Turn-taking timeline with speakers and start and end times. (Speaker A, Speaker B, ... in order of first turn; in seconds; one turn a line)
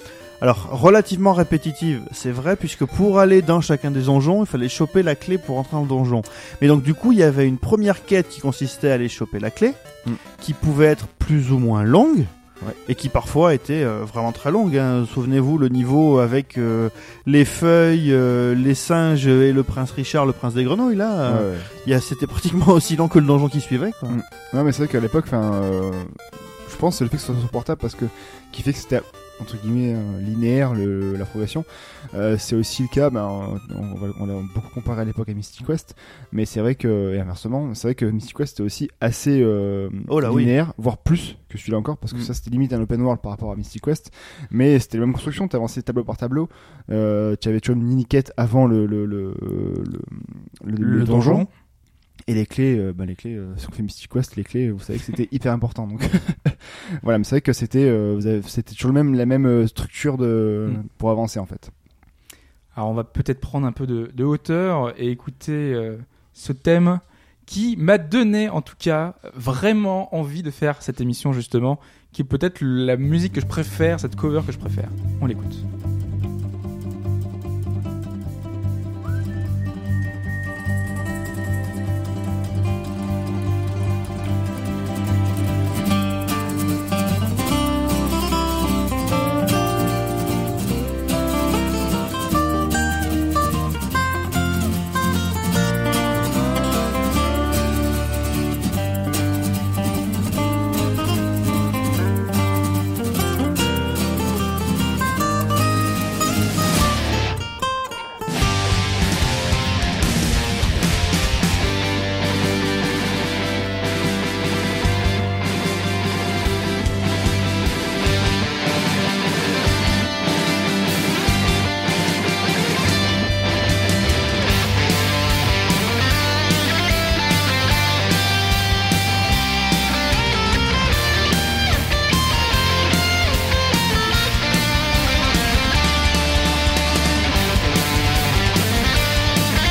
Speaker A: 0.4-9.8
Speaker A: 10.3-12.3
Speaker A: 12.8-24.2
Speaker B: 21.2-21.7
Speaker B: 24.1-51.5
Speaker A: 40.1-40.5
Speaker C: 50.8-51.5
Speaker B: 52.3-61.7
Speaker C: 62.7-75.6